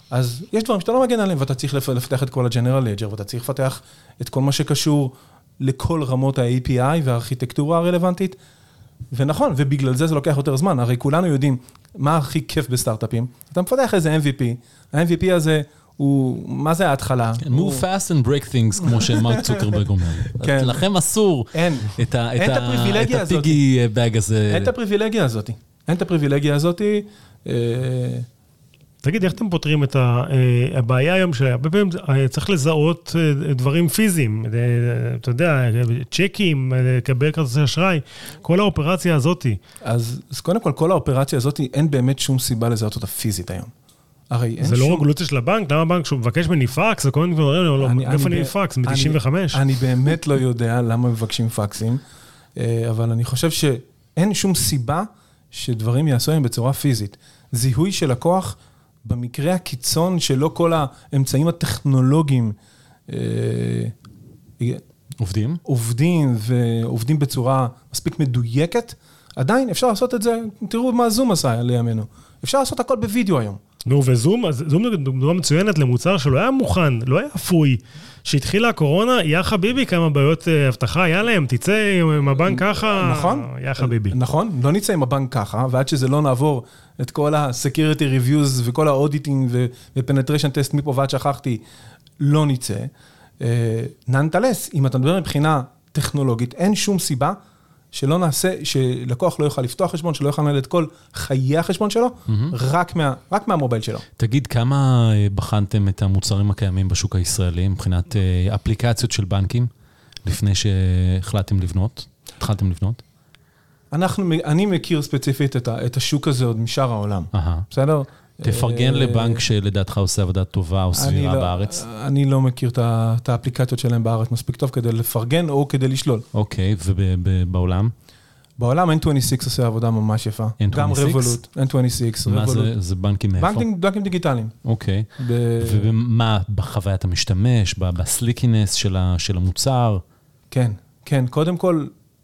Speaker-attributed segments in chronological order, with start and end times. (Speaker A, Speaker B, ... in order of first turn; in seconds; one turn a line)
Speaker A: 0.1-8.3
Speaker A: 9.1-17.8
Speaker B: 17.4-24.7
Speaker A: 19.0-19.6
Speaker A: 20.3-20.8
Speaker A: 21.5-23.6
Speaker A: 24.5-28.3
Speaker C: 29.0-39.6
Speaker A: 39.8-43.7
Speaker A: 44.3-45.0
Speaker C: 44.6-49.6
Speaker A: 47.8-52.0
Speaker A: 52.5-62.5
Speaker A: 63.1-63.9
Speaker B: 65.2-65.6
Speaker A: 65.6-73.6
Speaker C: 73.8-84.2
Speaker A: 82.5-91.6
Speaker A: 92.2-97.4
Speaker A: 97.9-104.0
Speaker B: 102.3-102.5
Speaker B: 104.2-109.7
Speaker B: 110.2-113.0
Speaker A: 113.9-119.4
Speaker B: 117.3-117.7
Speaker B: 118.4-121.8
Speaker A: 120.9-126.2
Speaker B: 126.3-127.9
Speaker A: 128.6-132.7
Speaker B: 130.6-131.4
Speaker B: 132.2-133.7
Speaker A: 133.4-134.5
Speaker B: 134.6-135.1
Speaker A: 135.2-135.9
Speaker B: 135.6-140.0
Speaker A: 140.5-141.9